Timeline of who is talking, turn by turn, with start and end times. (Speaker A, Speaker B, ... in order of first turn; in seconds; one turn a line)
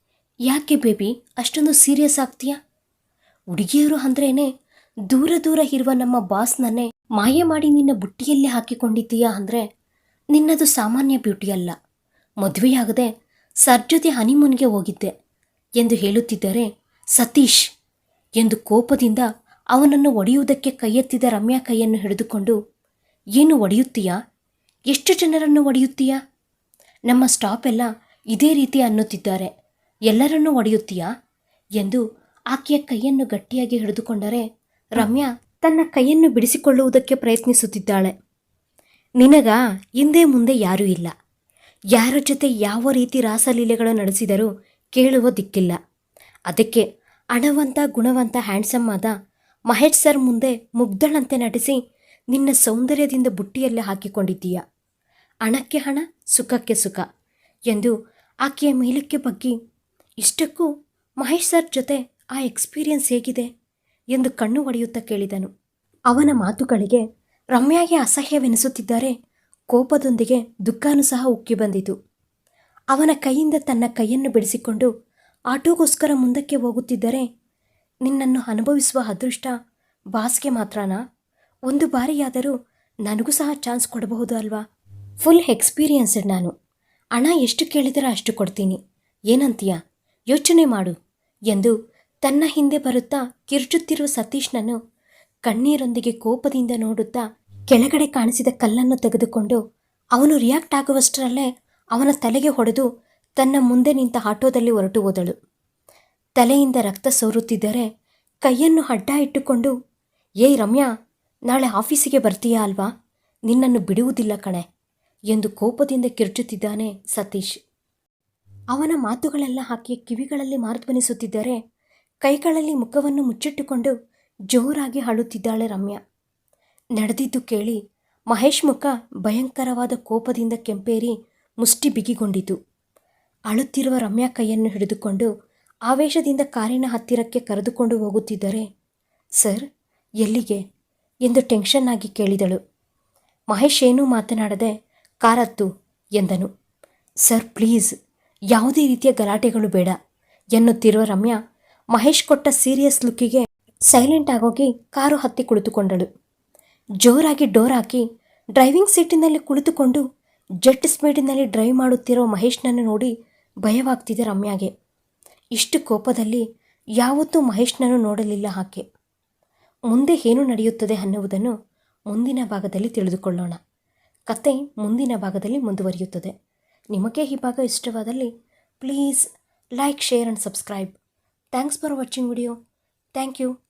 Speaker A: 0.5-2.6
Speaker A: 3.5-4.5
Speaker A: 5.1-9.6
Speaker A: 10.3-11.7
Speaker A: 12.4-13.1
Speaker A: 13.6-15.1
Speaker A: 15.8-17.6
Speaker A: 18.4-22.6
Speaker A: 23.4-24.1
Speaker A: 24.9-26.2
Speaker A: 27.1-29.5
Speaker A: 30.1-31.1
Speaker A: 32.5-34.4
Speaker A: 35.0-38.1
Speaker A: 39.2-41.1
Speaker A: 41.9-45.8
Speaker A: 46.5-49.1
Speaker A: 49.7-51.8
Speaker A: 52.3-54.6
Speaker A: 55.4-57.0
Speaker A: 58.4-59.5
Speaker A: 60.2-60.7
Speaker A: 61.2-63.5
Speaker A: 64.1-65.5
Speaker A: 66.1-69.1
Speaker A: 69.7-71.9
Speaker A: 72.9-74.9
Speaker A: 75.5-77.2
Speaker A: 78.0-79.5
Speaker A: 80.1-81.0
Speaker A: 81.7-84.6
Speaker A: 85.2-86.5
Speaker A: 87.2-88.8
Speaker A: 89.3-89.8
Speaker A: 90.3-90.9
Speaker A: 91.5-94.8
Speaker A: 95.5-99.6
Speaker A: 100.2-102.9
Speaker A: 103.4-105.3
Speaker A: 106.4-107.8
Speaker A: 108.4-109.7
Speaker A: 110.4-110.9
Speaker A: 111.5-112.9
Speaker A: 113.5-114.6
Speaker A: 115.3-117.5
Speaker A: 118.7-121.6
Speaker A: 122.2-123.9
Speaker A: 124.5-126.0
Speaker A: 127.0-127.8
Speaker A: 128.3-132.6
Speaker A: 133.5-135.3
Speaker A: 135.9-138.6
Speaker A: 140.2-140.6
Speaker A: 141.2-142.6
Speaker A: 143.5-146.5
Speaker A: 147.2-147.9
Speaker A: 148.5-149.9
Speaker A: 150.5-151.4
Speaker A: 151.9-156.1
Speaker A: 157.0-158.0
Speaker A: 158.6-160.0
Speaker A: 160.6-163.1
Speaker A: 163.6-164.7
Speaker A: 165.6-166.4
Speaker A: 167.0-168.8
Speaker A: 169.9-171.5
Speaker A: 172.1-173.6
Speaker A: 174.3-176.3
Speaker A: 176.9-179.2
Speaker A: 179.8-181.0
Speaker A: 181.5-182.5
Speaker A: 183.1-183.5